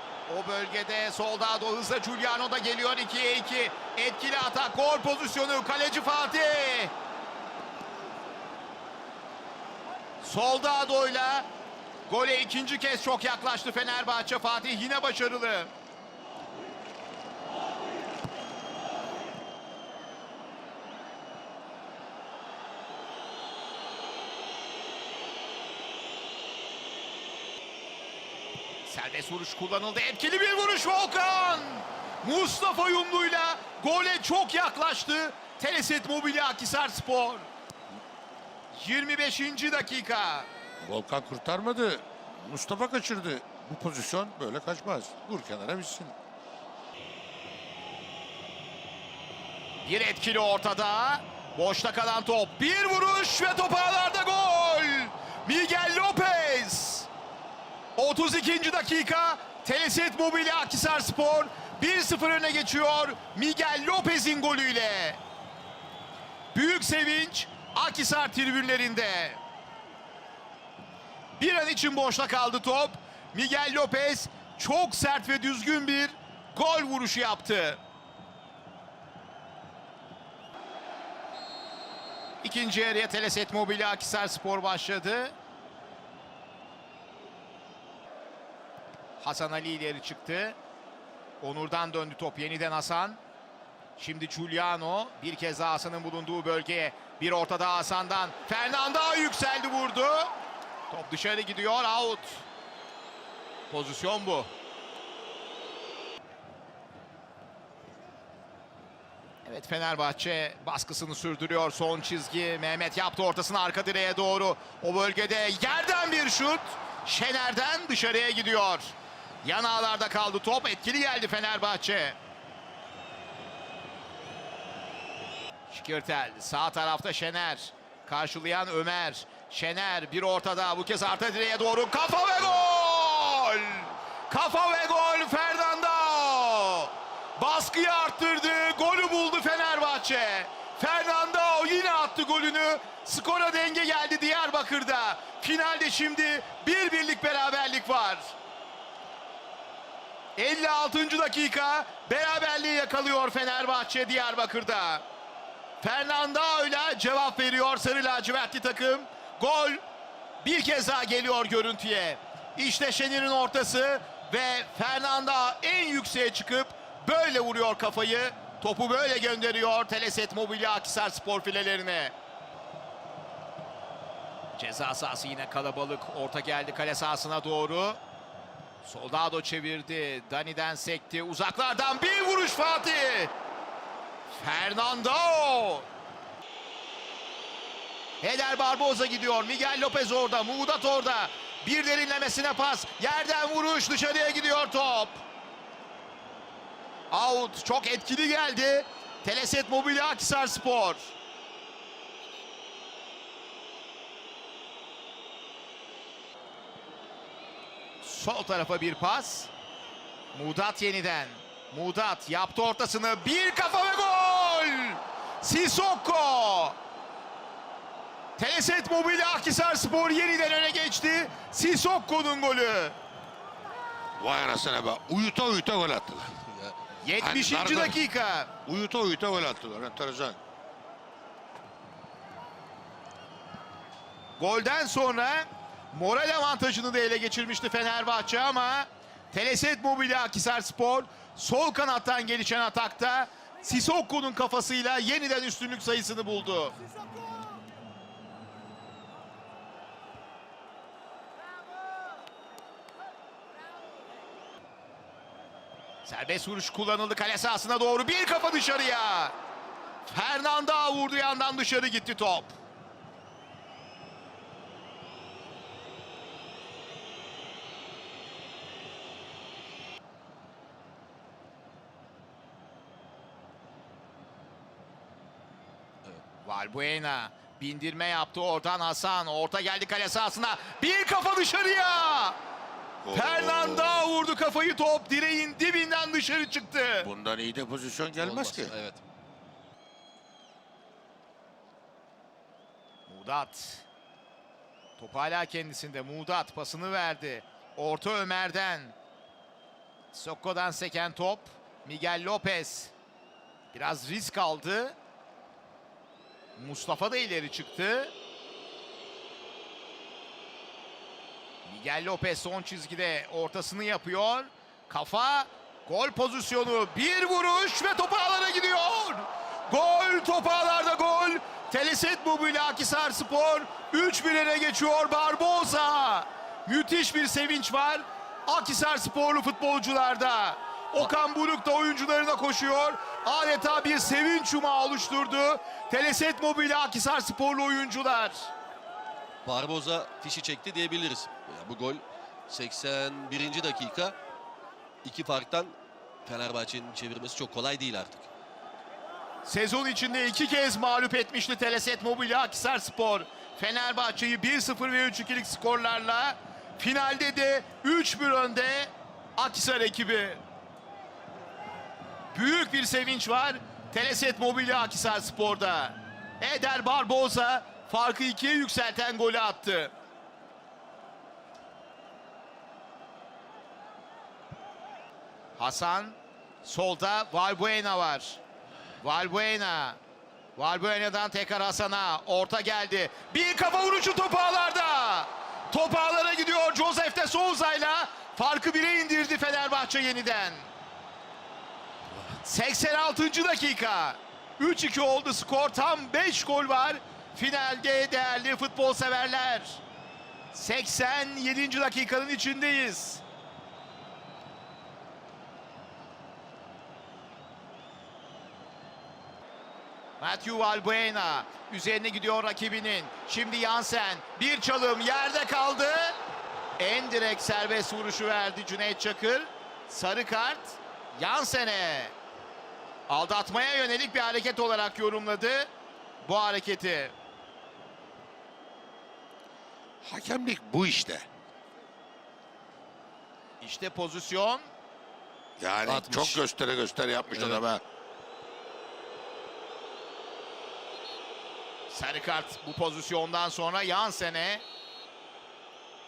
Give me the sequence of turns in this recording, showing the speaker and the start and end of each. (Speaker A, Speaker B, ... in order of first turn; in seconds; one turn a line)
Speaker A: 0.3-6.9
Speaker A: 10.2-11.5
Speaker A: 12.1-15.7
Speaker A: 28.9-37.5
Speaker A: 38.7-40.5
Speaker B: 40.8-46.1
Speaker A: 49.8-57.1
Speaker A: 58.0-65.2
Speaker A: 66.5-69.4
Speaker A: 71.4-77.8
Speaker A: 82.4-85.3
Speaker A: 89.2-90.6
Speaker A: 91.4-93.2
Speaker A: 94.0-100.3
Speaker A: 100.9-102.4
Speaker A: 103.7-104.5
Speaker A: 109.4-122.2
Speaker A: 125.7-148.3
Speaker A: 150.3-155.0
Speaker A: 155.8-159.8
Speaker A: 160.4-172.1
Speaker A: 174.6-178.0
Speaker A: 178.8-183.3
Speaker A: 184.3-185.9
Speaker A: 188.2-195.2
Speaker A: 197.1-201.2
Speaker A: 208.0-209.5
Speaker A: 210.3-216.8
Speaker A: 218.4-223.0
Speaker B: 224.2-226.4
Speaker A: 227.0-228.5
Speaker B: 227.2-228.0
Speaker B: 228.7-230.4
Speaker A: 234.4-246.8
Speaker A: 256.0-259.4
Speaker A: 260.1-262.5
Speaker A: 276.4-282.4
Speaker B: 283.0-284.0
Speaker A: 283.1-287.1
Speaker B: 287.0-288.8
Speaker C: 288.2-289.0
Speaker A: 293.1-293.9
Speaker A: 295.0-298.9
Speaker A: 300.1-302.9
Speaker A: 303.7-305.0
Speaker A: 306.6-308.1
Speaker A: 311.6-338.5
Speaker C: 339.4-344.1
Speaker C: 345.0-348.2
Speaker A: 349.4-360.4
Speaker A: 362.3-369.9
Speaker A: 375.6-378.4
Speaker A: 379.0-380.0
Speaker A: 380.6-390.7
Speaker A: 392.4-399.8
Speaker A: 400.5-403.2
Speaker A: 410.2-416.2
Speaker A: 416.8-422.1
Speaker A: 423.1-425.7
Speaker A: 426.2-427.1
Speaker B: 430.0-431.3
Speaker A: 433.6-434.7
Speaker B: 435.6-437.8
Speaker C: 435.9-436.4
Speaker C: 437.3-437.6
Speaker A: 441.9-444.6